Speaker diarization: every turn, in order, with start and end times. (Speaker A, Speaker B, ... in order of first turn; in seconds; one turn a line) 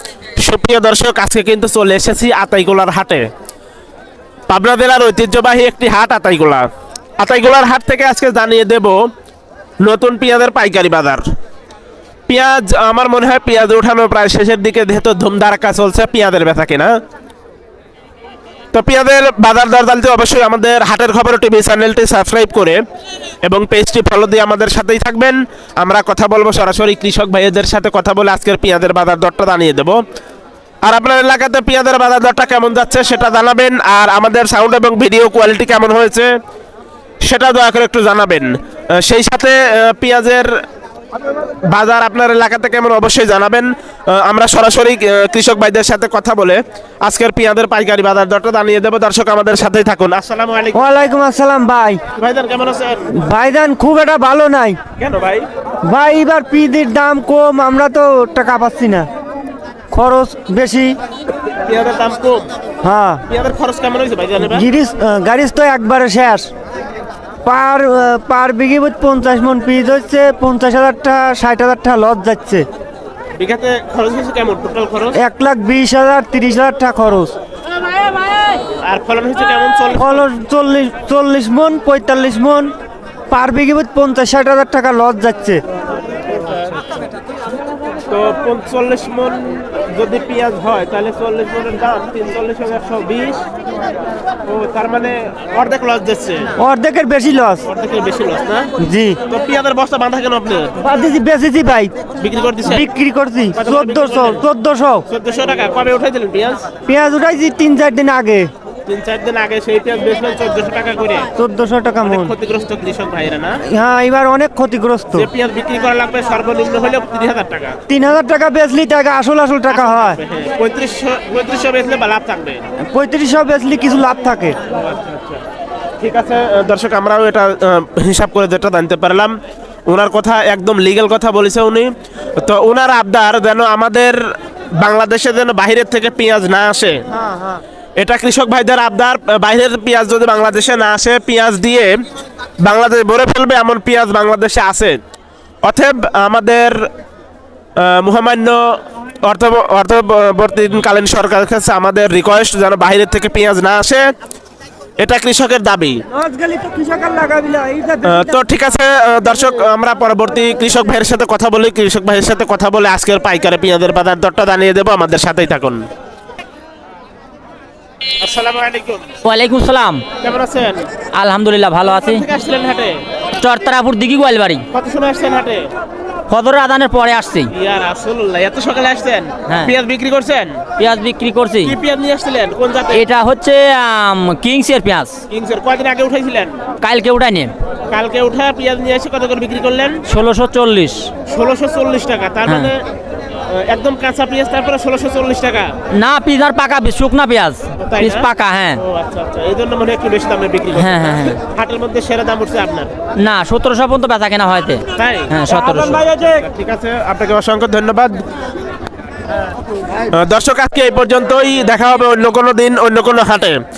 Speaker A: 0.4-3.3
Speaker A: 4.5-6.7
Speaker A: 7.2-9.1
Speaker A: 9.8-11.2
Speaker A: 12.3-16.9
Speaker A: 18.7-22.8
Speaker A: 23.4-30.0
Speaker A: 30.8-36.3
Speaker A: 37.2-40.5
Speaker A: 41.7-50.9
Speaker B: 50.7-52.0
Speaker A: 52.2-53.1
Speaker B: 53.1-54.8
Speaker A: 55.0-55.5
Speaker B: 55.9-59.1
Speaker B: 59.9-61.0
Speaker A: 61.6-62.5
Speaker B: 62.8-63.2
Speaker A: 63.3-64.7
Speaker B: 64.4-66.5
Speaker B: 67.4-72.7
Speaker A: 73.4-75.2
Speaker B: 75.2-77.4
Speaker A: 78.7-80.2
Speaker B: 80.0-82.7
Speaker B: 83.3-85.6
Speaker A: 88.1-93.5
Speaker A: 94.5-96.5
Speaker B: 96.6-97.7
Speaker A: 97.7-98.7
Speaker B: 98.8-99.2
Speaker A: 99.3-100.8
Speaker B: 100.8-101.9
Speaker A: 102.2-102.9
Speaker B: 102.7-105.1
Speaker A: 103.5-104.4
Speaker A: 105.1-106.7
Speaker B: 106.9-108.5
Speaker A: 108.9-111.3
Speaker B: 111.4-112.3
Speaker A: 112.0-113.6
Speaker B: 113.7-115.3
Speaker A: 115.1-117.8
Speaker B: 117.9-120.2
Speaker A: 119.7-122.7
Speaker B: 122.9-124.6
Speaker A: 124.7-125.4
Speaker A: 126.0-129.3
Speaker A: 129.9-134.2
Speaker A: 134.8-137.0
Speaker B: 137.1-137.6
Speaker A: 138.0-142.0
Speaker A: 142.6-145.0
Speaker A: 145.6-146.9
Speaker A: 147.8-154.1
Speaker A: 155.0-156.0
Speaker B: 156.1-158.4
Speaker A: 158.0-165.8
Speaker A: 168.2-169.1
Speaker C: 169.2-170.0
Speaker A: 170.2-170.9
Speaker C: 171.1-172.2
Speaker A: 172.0-173.0
Speaker C: 173.4-174.7
Speaker A: 174.7-175.7
Speaker C: 176.3-177.5
Speaker A: 177.5-180.7
Speaker C: 180.8-181.8
Speaker A: 181.6-183.0
Speaker C: 182.9-185.2
Speaker A: 185.3-186.6
Speaker C: 186.8-187.5
Speaker A: 187.9-190.0
Speaker C: 190.1-191.1
Speaker A: 191.3-192.8
Speaker A: 193.5-195.8
Speaker C: 195.9-198.8
Speaker A: 197.8-202.9
Speaker C: 200.7-201.4
Speaker C: 203.2-206.2
Speaker A: 204.9-208.2
Speaker A: 210.1-213.6